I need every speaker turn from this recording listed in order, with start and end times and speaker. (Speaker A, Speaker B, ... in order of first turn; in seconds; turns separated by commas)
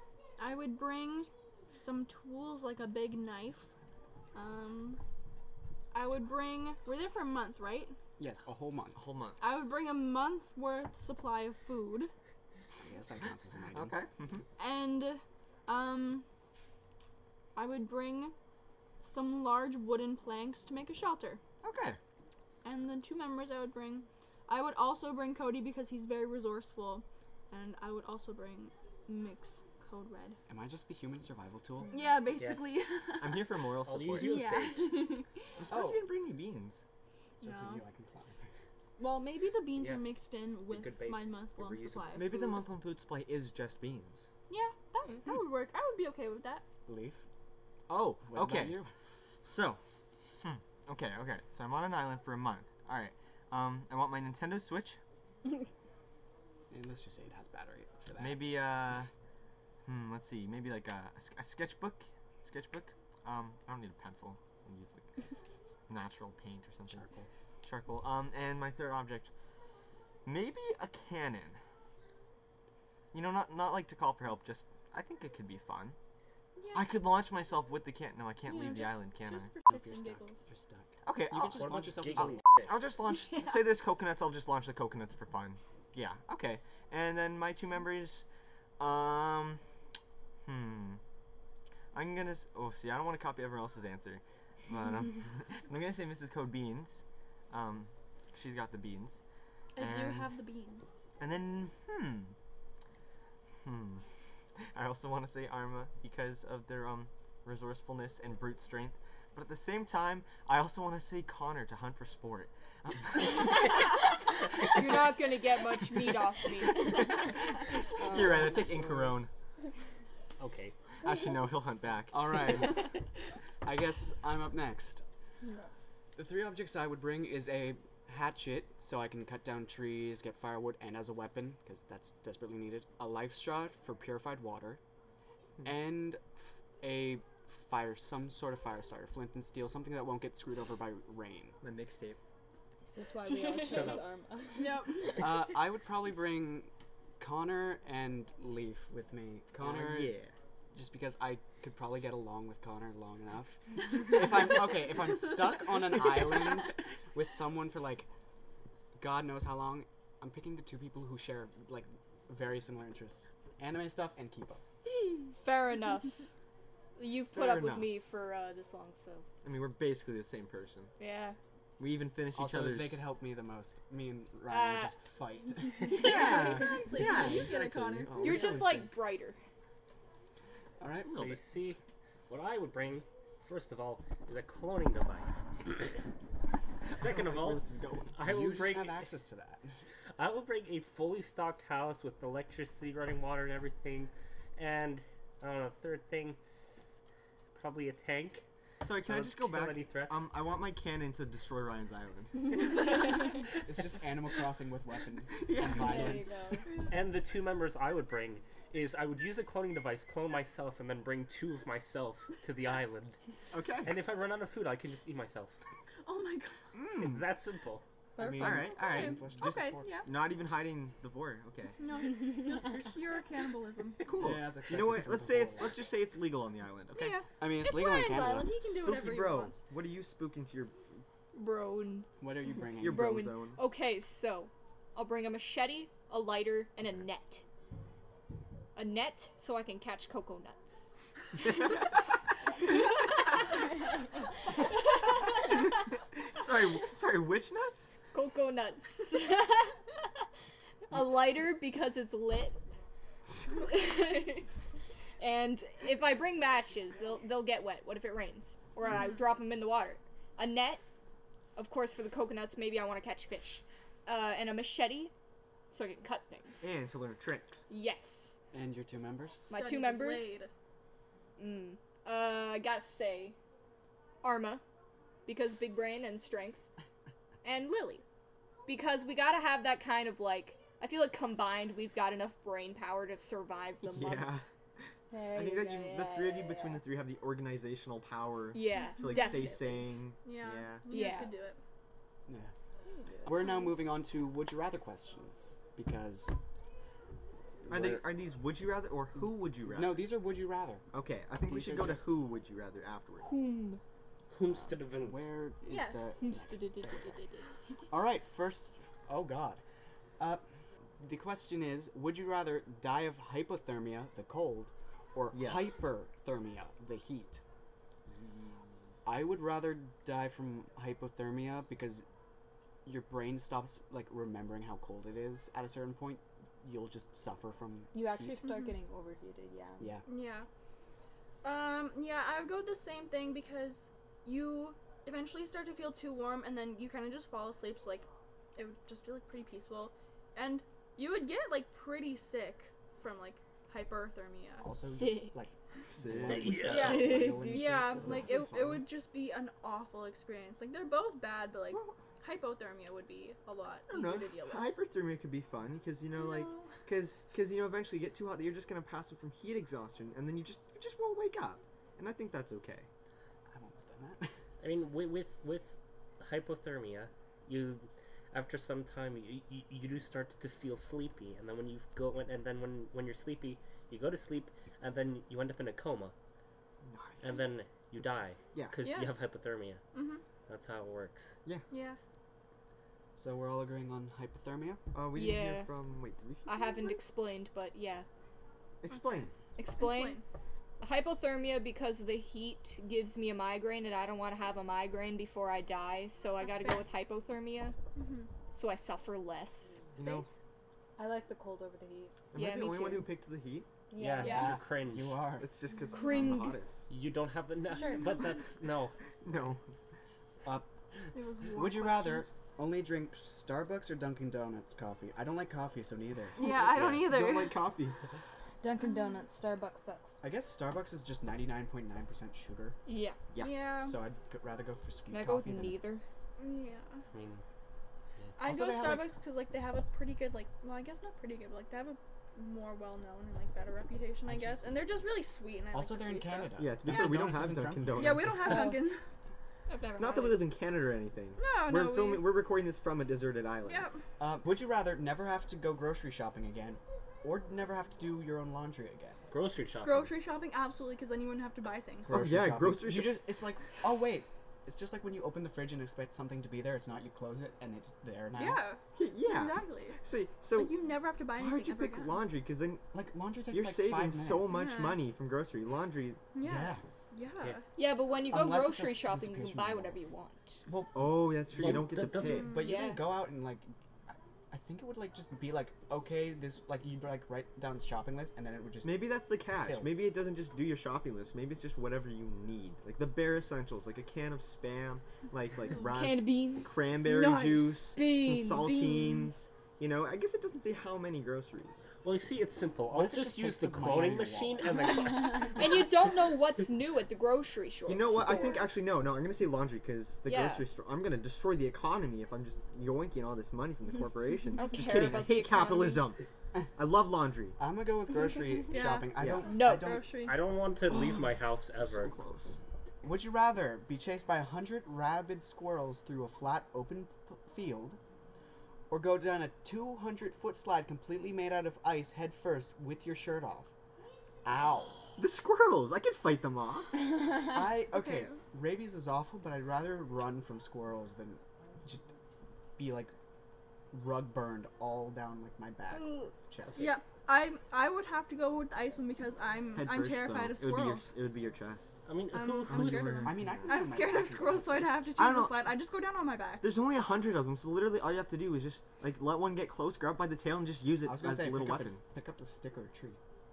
Speaker A: 0.4-3.6, Speaker A: 4.3-5.0, Speaker A: 5.9-8.0, Speaker B: 8.2-9.0, Speaker C: 8.9-9.4, Speaker A: 9.4-12.1, Speaker B: 12.8-13.9, Speaker C: 13.7-14.4, Speaker A: 14.6-16.2, Speaker A: 17.5-18.3, Speaker A: 19.0-21.4, Speaker C: 21.6-22.0, Speaker A: 22.6-30.4, Speaker B: 30.5-31.9, Speaker A: 31.9-33.6, Speaker D: 32.4-32.6, Speaker C: 33.2-34.3, Speaker D: 33.9-35.2, Speaker A: 34.1-35.3, Speaker B: 35.6-36.1, Speaker C: 35.6-36.8, Speaker B: 37.4-38.5, Speaker A: 37.4-37.8, Speaker A: 39.0-42.6, Speaker D: 39.8-40.1, Speaker D: 40.7-42.2, Speaker C: 42.1-44.3, Speaker A: 44.5-46.6, Speaker B: 46.9-47.2, Speaker C: 47.9-48.8, Speaker B: 48.2-48.9, Speaker C: 49.4-49.8, Speaker C: 50.4-55.0, Speaker B: 56.7-58.6, Speaker C: 58.2-59.1, Speaker C: 59.8-65.1, Speaker C: 65.9-67.0, Speaker B: 66.9-67.3, Speaker C: 67.6-69.3, Speaker C: 70.2-71.6, Speaker C: 73.1-76.0, Speaker A: 76.6-76.9, Speaker C: 76.7-79.5, Speaker A: 78.4-80.4, Speaker B: 79.7-82.4, Speaker C: 81.0-88.2, Speaker D: 81.5-82.8, Speaker A: 83.2-83.5, Speaker C: 88.8-89.6, Speaker C: 90.4-91.0, Speaker C: 91.9-99.2, Speaker A: 99.7-100.9, Speaker C: 99.8-100.3, Speaker C: 101.2-102.3, Speaker C: 103.6-104.0, Speaker C: 104.7-113.7, Speaker E: 114.6-117.3, Speaker B: 117.9-119.2, Speaker C: 118.0-119.3, Speaker D: 120.4-120.7, Speaker C: 121.0-122.8, Speaker B: 122.1-122.9, Speaker B: 123.6-125.0, Speaker B: 126.2-134.8, Speaker B: 135.6-141.6, Speaker C: 141.6-142.2, Speaker F: 142.8-145.2, Speaker D: 143.6-144.0, Speaker A: 144.5-145.5, Speaker B: 145.2-150.2, Speaker C: 149.6-150.3, Speaker B: 150.7-158.1, Speaker B: 158.9-164.6, Speaker E: 164.9-166.2, Speaker E: 167.0-169.2, Speaker C: 167.3-167.9, Speaker C: 169.4-170.9, Speaker E: 171.0-171.4, Speaker C: 171.8-173.0, Speaker B: 172.3-178.9, Speaker E: 174.5-174.9, Speaker A: 175.8-178.6, Speaker C: 177.0-178.7, Speaker E: 178.2-179.4, Speaker B: 180.8-181.1, Speaker C: 181.0-181.4, Speaker D: 181.1-185.9, Speaker D: 186.9-187.6, Speaker C: 186.9-188.1, Speaker D: 188.1-189.1, Speaker B: 188.2-189.7, Speaker D: 190.2-196.4, Speaker D: 197.5-198.4, Speaker C: 198.8-203.3, Speaker D: 199.1-200.3, Speaker B: 203.6-206.6, Speaker C: 205.3-206.2, Speaker F: 205.7-206.7, Speaker A: 206.7-206.9, Speaker D: 206.9-213.2, Speaker C: 213.5-213.9, Speaker D: 213.8-215.6, Speaker A: 216.0-216.6, Speaker C: 216.7-217.3, Speaker D: 216.9-217.8, Speaker F: 218.2-218.7, Speaker B: 218.2-220.0, Speaker C: 218.4-221.8, Speaker A: 218.6-220.1, Speaker A: 221.8-224.1, Speaker C: 224.0-227.2, Speaker B: 224.2-225.8, Speaker A: 226.9-229.6, Speaker B: 227.4-228.7, Speaker C: 228.8-230.8, Speaker E: 231.3-232.1, Speaker B: 232.2-233.1, Speaker C: 232.8-233.6, Speaker E: 232.8-237.4, Speaker E: 238.8-241.0, Speaker C: 241.4-242.1, Speaker C: 246.2-247.9, Speaker E: 248.1-249.8, Speaker E: 250.9-252.6, Speaker C: 253.3-253.6, Speaker E: 253.6-254.4, Speaker E: 255.2-260.8, Speaker E: 261.6-265.1, Speaker E: 265.7-266.7, Speaker C: 266.6-267.6, Speaker E: 267.7-268.4, Speaker B: 268.5-269.5, Speaker E: 269.5-270.4, Speaker A: 269.5-270.5, Speaker E: 271.4-273.4, Speaker E: 274.2-274.6, Speaker E: 275.2-276.7, Speaker E: 277.4-278.0, Speaker E: 278.7-284.4, Speaker C: 283.8-284.4, Speaker F: 285.1-286.8, Speaker C: 285.3-290.9, Speaker E: 288.5-289.9, Speaker A: 288.8-289.5, Speaker A: 290.1-291.6, Speaker E: 290.9-291.3, Speaker B: 292.3-292.5, Speaker B: 293.2-296.3, Speaker B: 297.6-298.1, Speaker C: 297.7-300.1, Speaker B: 299.6-300.8, Speaker C: 300.9-303.3, Speaker B: 301.4-302.1, Speaker E: 303.2-303.8, Speaker D: 304.3-305.3, Speaker B: 304.5-307.1, Speaker A: 305.6-306.1, Speaker E: 306.2-307.5, Speaker B: 307.9-309.6, Speaker B: 311.0-317.4, Speaker C: 315.3-315.8, Speaker C: 318.1-318.6, Speaker B: 319.1-322.0, Speaker B: 322.8-328.4, Speaker F: 327.9-329.9, Speaker A: 328.4-328.7, Speaker A: 330.1-330.5, Speaker A: 331.4-344.7, Speaker B: 344.6-348.8, Speaker E: 344.9-345.3, Speaker C: 345.8-346.9, Speaker D: 346.2-347.1, Speaker A: 346.7-354.7, Speaker E: 346.9-347.5, Speaker F: 347.3-347.8, Speaker C: 351.7-352.0, Speaker C: 353.9-362.9, Speaker A: 356.1-356.7, Speaker B: 363.5-364.3, Speaker D: 364.6-376.1, Speaker C: 376.8-377.4, Speaker D: 377.2-379.8, Speaker C: 378.5-378.8, Speaker A: 378.8-379.1, Speaker A: 379.9-380.2, Speaker D: 380.5-381.3, Speaker A: 381.7-382.0, Speaker B: 383.1-384.8, Speaker C: 384.9-386.7, Speaker E: 385.1-385.7, Speaker E: 386.4-388.1, Speaker C: 388.8-389.3, Speaker E: 389.6-390.2, Speaker A: 389.7-390.2, Speaker E: 390.8-397.8, Speaker A: 396.4-396.8, Speaker A: 397.9-398.3, Speaker E: 398.5-399.9, Speaker C: 399.9-400.3, Speaker F: 401.0-402.1, Speaker C: 402.3-403.7, Speaker E: 402.3-403.1, Speaker F: 403.9-404.6, Speaker D: 404.0-405.2, Speaker B: 404.2-405.5, Speaker A: 404.2-404.6, Speaker C: 405.4-406.9, Speaker E: 405.9-406.6, Speaker D: 406.9-408.9, Speaker F: 407.7-408.1, Speaker C: 409.2-409.6, Speaker A: 411.1-412.3, Speaker B: 411.5-416.4, Speaker A: 416.4-417.6, Speaker C: 416.4-417.9, Speaker F: 418.6-420.2, Speaker A: 418.9-419.1, Speaker B: 420.2-422.8, Speaker E: 422.9-423.3, Speaker C: 423.3-423.6, Speaker A: 423.4-424.0, Speaker B: 423.7-425.8, Speaker E: 425.1-426.0, Speaker A: 426.4-427.0, Speaker D: 427.1-427.4, Speaker A: 428.4-437.2, Speaker B: 428.4-429.1, Speaker B: 434.2-434.8, Speaker B: 435.7-438.6, Speaker C: 436.6-438.6, Speaker A: 437.9-439.0, Speaker F: 438.5-438.8, Speaker E: 439.7-440.5, Speaker C: 440.0-443.9, Speaker A: 441.4-442.3, Speaker A: 443.6-444.0, Speaker B: 444.2-449.2, Speaker D: 449.3-450.1, Speaker A: 449.8-452.2, Speaker B: 452.1-458.6, Speaker C: 452.1-453.2, Speaker A: 458.3-460.0, Speaker C: 458.9-460.8, Speaker A: 460.5-462.2, Speaker C: 461.4-462.8, Speaker B: 462.9-464.6, Speaker C: 463.5-466.2, Speaker A: 464.5-465.1, Speaker A: 466.3-467.6, Speaker B: 466.4-466.8, Speaker E: 467.8-470.6, Speaker B: 468.3-470.0, Speaker B: 470.7-480.0, Speaker C: 470.9-472.6, Speaker D: 471.6-472.5, Speaker A: 472.2-472.9, Speaker E: 472.6-473.1, Speaker C: 478.8-491.9, Speaker E: 485.8-486.9, Speaker A: 487.0-487.9, Speaker E: 487.9-489.3, Speaker A: 488.6-489.0, Speaker D: 492.0-495.7, Speaker B: 492.9-495.1, Speaker E: 495.2-498.6, Speaker C: 497.9-506.2, Speaker E: 500.2-500.6, Speaker E: 504.6-506.1, Speaker C: 506.8-507.6, Speaker B: 507.6-510.1, Speaker A: 508.7-510.4, Speaker C: 509.1-509.4, Speaker E: 509.4-509.9, Speaker D: 510.2-512.1, Speaker C: 511.8-512.6, Speaker B: 513.0-518.0, Speaker B: 518.9-523.7, Speaker B: 524.4-525.1, Speaker C: 525.2-526.9, Speaker B: 527.3-532.1, Speaker A: 527.8-528.4, Speaker B: 532.8-533.1, Speaker B: 533.9-537.0, Speaker A: 536.8-541.1, Speaker C: 539.7-541.9, Speaker D: 542.0-543.4, Speaker A: 542.3-546.7, Speaker C: 542.7-543.7, Speaker B: 543.2-545.1, Speaker C: 545.2-545.7, Speaker C: 546.6-552.0, Speaker B: 551.0-553.2